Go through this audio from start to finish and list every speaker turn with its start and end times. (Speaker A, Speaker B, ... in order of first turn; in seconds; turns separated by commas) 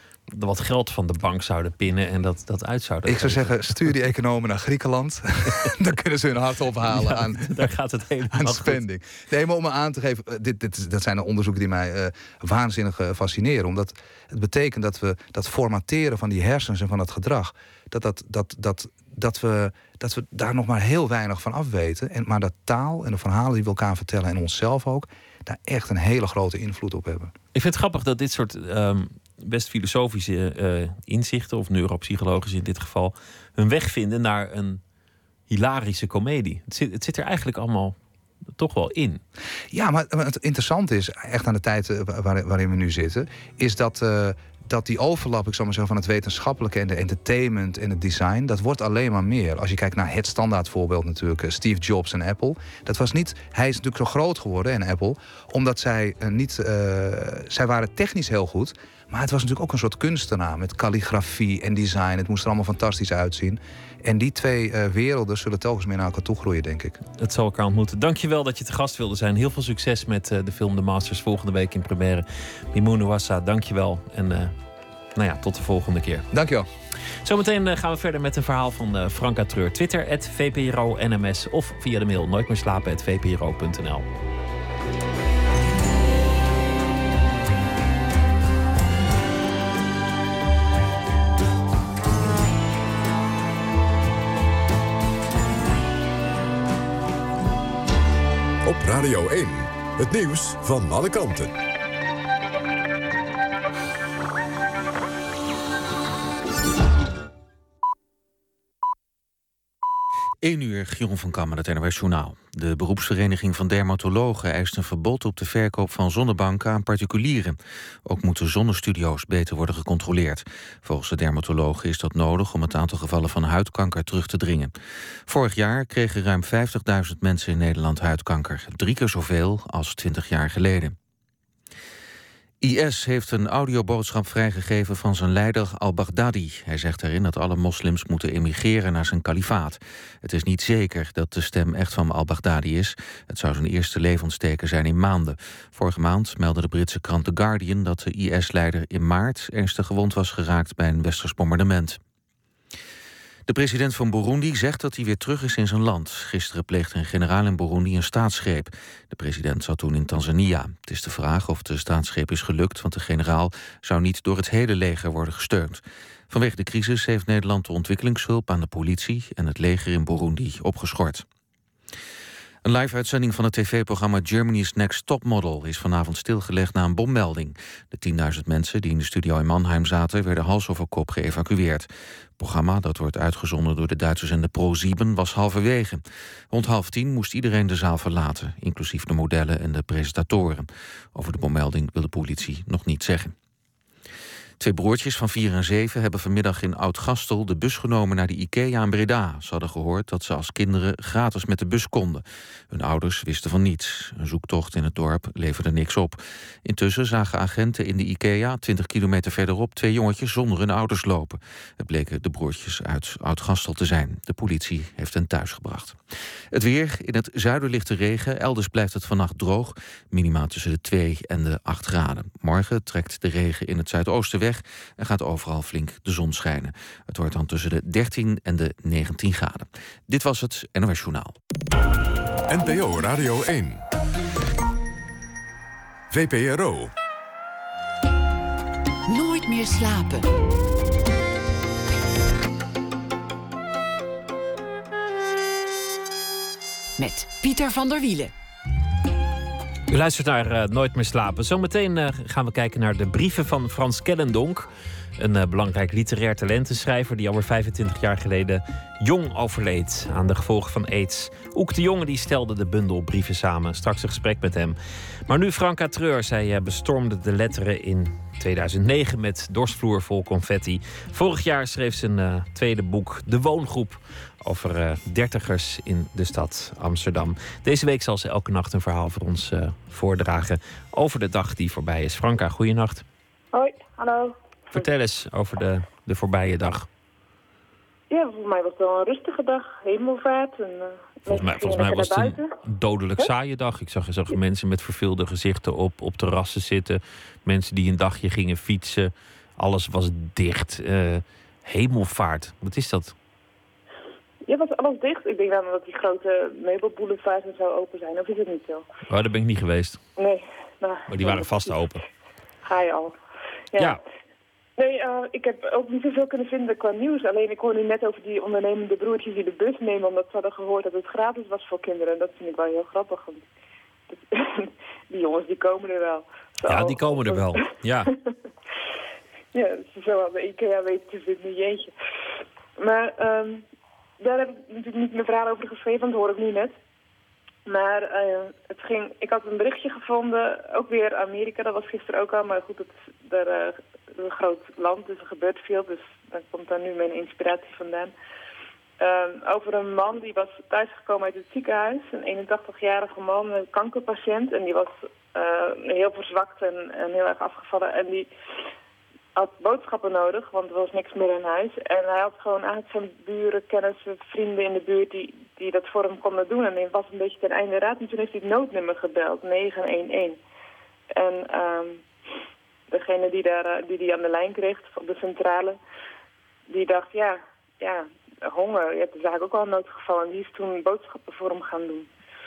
Speaker A: 0.3-3.6, Speaker B: 3.0-7.7, Speaker A: 6.8-8.8, Speaker B: 8.3-27.3, Speaker A: 27.5-34.8, Speaker A: 35.5-38.0, Speaker A: 38.5-39.2, Speaker B: 39.7-67.0, Speaker A: 67.2-74.5, Speaker A: 75.1-76.3, Speaker B: 76.3-76.7, Speaker A: 77.2-84.0, Speaker C: 98.6-101.5, Speaker D: 110.4-124.7, Speaker D: 125.3-130.9, Speaker D: 132.6-152.0, Speaker D: 153.5-171.2, Speaker D: 172.6-181.9, Speaker D: 182.4-193.3, Speaker D: 194.6-216.0, Speaker D: 216.5-231.3, Speaker C: 232.5-233.8, Speaker C: 236.1-236.9, Speaker E: 239.1-240.3, Speaker E: 247.0-248.3, Speaker A: 249.9-254.7, Speaker A: 255.2-264.8, Speaker A: 265.3-283.0, Speaker F: 283.5-284.4, Speaker A: 284.7-286.9, Speaker F: 288.1-292.5, Speaker A: 291.3-303.1, Speaker F: 304.4-308.8, Speaker A: 309.1-310.0, Speaker F: 310.2-311.8, Speaker A: 311.1-312.0, Speaker F: 312.6-313.1, Speaker F: 314.8-323.4, Speaker F: 324.1-328.1, Speaker A: 326.6-328.1, Speaker F: 329.5-331.9, Speaker F: 332.8-333.6, Speaker F: 334.2-336.8, Speaker F: 337.7-348.1, Speaker F: 349.0-358.3, Speaker F: 359.4-370.4, Speaker F: 371.1-372.0, Speaker F: 372.9-375.8, Speaker F: 376.7-382.1